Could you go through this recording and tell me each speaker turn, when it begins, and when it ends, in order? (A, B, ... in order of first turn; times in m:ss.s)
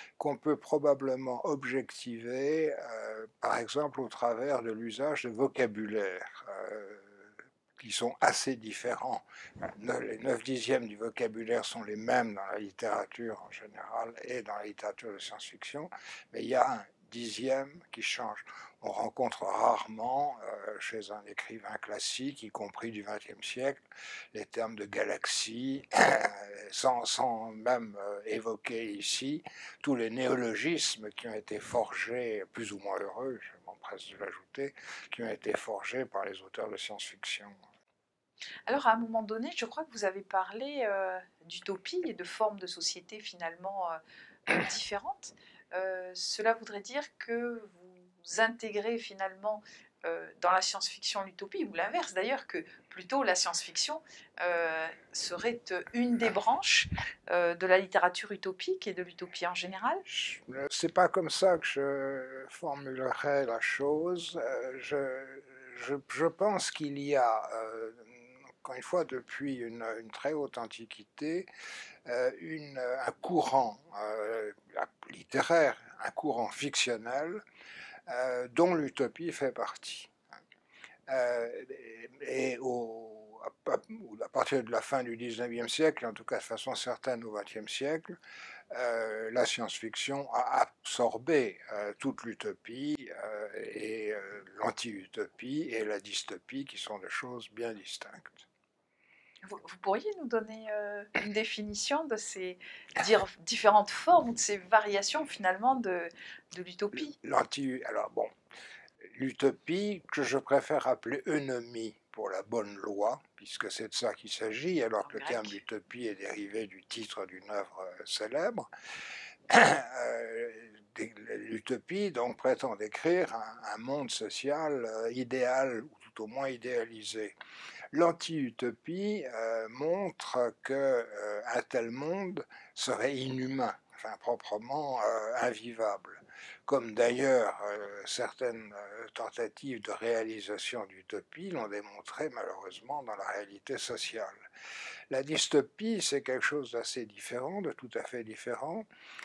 0:00.2-0:37.6 A
0:38.7-1:00.0 B
1:00.1-1:11.5 A
1:12.0-1:17.4 A
1:18.1-1:20.2 A
1:21.1-1:28.2 A
1:28.7-1:38.5 A
1:39.4-1:47.2 B
1:46.9-1:48.3 A
1:49.0-1:58.7 A
1:55.0-1:55.6 B
1:59.5-2:07.4 A
2:07.9-2:24.5 A
2:25.1-2:28.9 A